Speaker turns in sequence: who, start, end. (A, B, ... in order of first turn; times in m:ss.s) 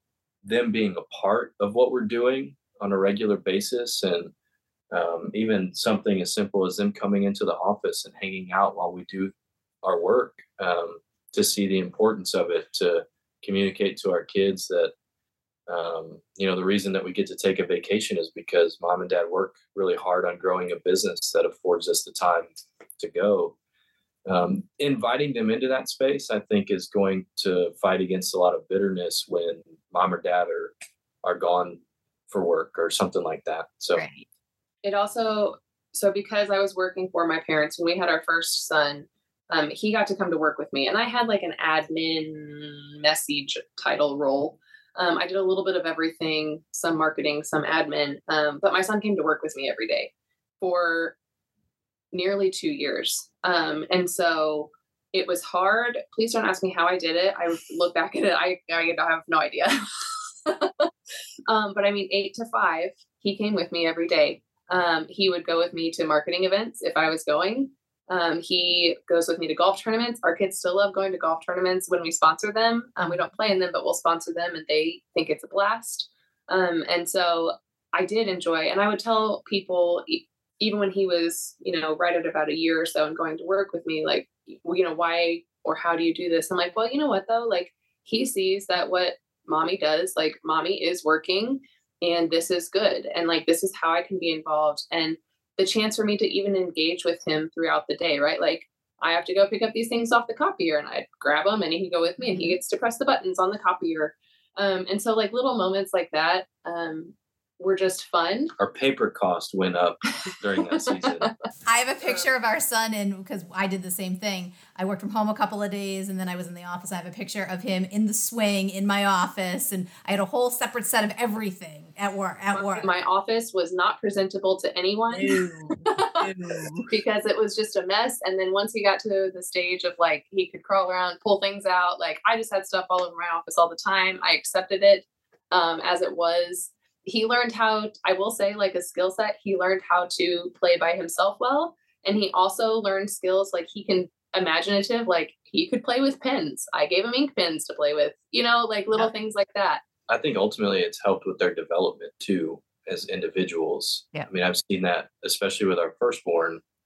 0:00.4-0:04.3 A
0:04.9-0:09.3 A
0:09.8-0:14.9 A
0:15.7-0:23.5 A
0:24.2-0:31.8 A
0:32.3-0:34.0 A
0:33.9-0:34.2 B
0:34.8-0:51.2 C
0:52.1-0:59.8 C
1:00.4-1:00.9 C
1:01.5-1:48.5 C
1:42.3-1:42.6 B
1:48.6-1:51.3 A
1:51.6-2:02.9 B
2:02.5-2:06.3 C
2:05.1-2:06.8 B
2:06.9-2:29.8 C
2:30.1-2:36.6 A